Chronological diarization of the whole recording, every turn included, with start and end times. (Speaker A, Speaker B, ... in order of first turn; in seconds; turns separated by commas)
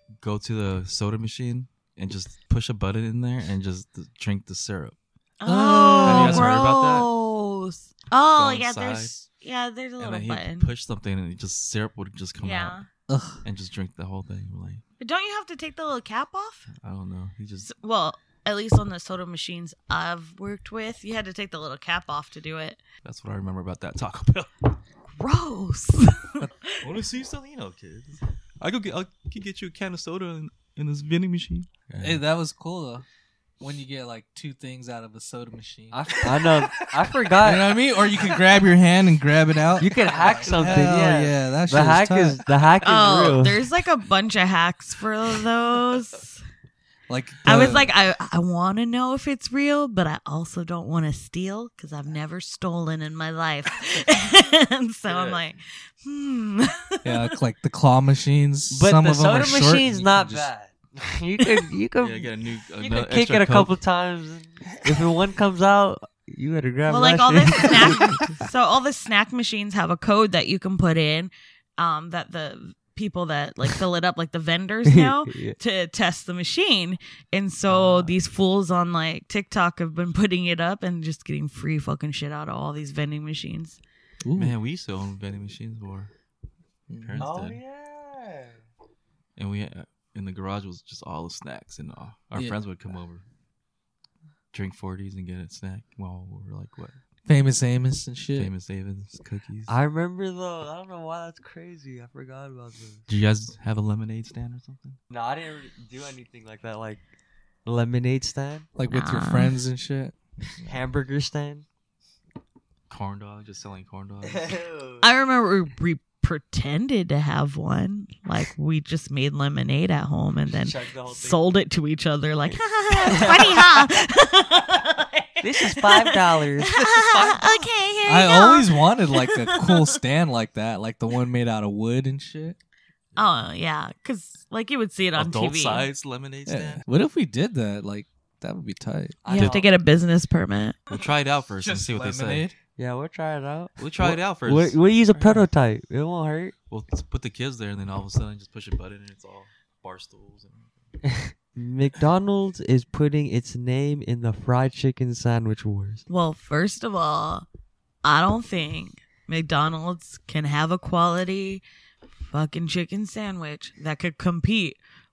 Speaker A: 0.2-5.0, Speaker B: 5.4-10.7, Speaker C: 5.5-6.6, Speaker A: 6.0-7.1, Speaker A: 8.4-9.2, Speaker A: 10.0-12.8, Speaker B: 12.4-12.9, Speaker C: 13.1-13.4, Speaker A: 13.4-14.8, Speaker B: 15.0-16.7, Speaker A: 16.8-17.7, Speaker B: 17.7-22.8, Speaker A: 23.0-24.5, Speaker B: 25.1-26.8, Speaker A: 26.8-32.2, Speaker C: 32.0-33.0, Speaker C: 33.6-36.5, Speaker D: 35.9-37.8, Speaker C: 37.4-42.4, Speaker D: 39.8-43.6, Speaker A: 40.1-40.5, Speaker B: 42.8-46.4, Speaker C: 47.1-47.9, Speaker B: 47.5-57.3, Speaker A: 55.1-55.4, Speaker C: 57.0-60.5, Speaker D: 58.7-68.3, Speaker A: 62.0-63.7, Speaker B: 66.9-83.8, Speaker D: 74.9-75.6, Speaker A: 77.7-78.1, Speaker C: 84.2-84.5, Speaker A: 84.3-86.1, Speaker C: 86.9-87.3, Speaker A: 87.0-87.6, Speaker D: 87.2-88.6, Speaker A: 89.4-93.2, Speaker A: 94.5-97.0, Speaker C: 97.3-98.5, Speaker A: 98.4-99.7, Speaker D: 99.7-103.0, Speaker A: 103.1-105.0, Speaker D: 105.1-107.0, Speaker D: 107.7-108.7, Speaker C: 108.8-110.8, Speaker B: 108.9-109.6, Speaker D: 110.7-111.7, Speaker A: 112.9-114.6, Speaker D: 114.2-115.0, Speaker B: 115.0-129.9, Speaker D: 120.5-121.4, Speaker D: 123.0-123.9, Speaker D: 125.4-126.8, Speaker C: 127.0-127.4, Speaker C: 128.1-132.6, Speaker B: 133.2-135.9, Speaker A: 135.2-136.8, Speaker C: 136.5-139.2, Speaker D: 139.2-139.7, Speaker B: 139.3-140.8, Speaker A: 139.3-139.6, Speaker A: 140.9-142.5, Speaker C: 141.6-142.6, Speaker D: 142.8-146.6, Speaker A: 143.8-145.5, Speaker A: 146.7-150.7, Speaker D: 151.1-156.0, Speaker B: 156.1-157.5, Speaker B: 158.0-161.6, Speaker B: 162.3-164.8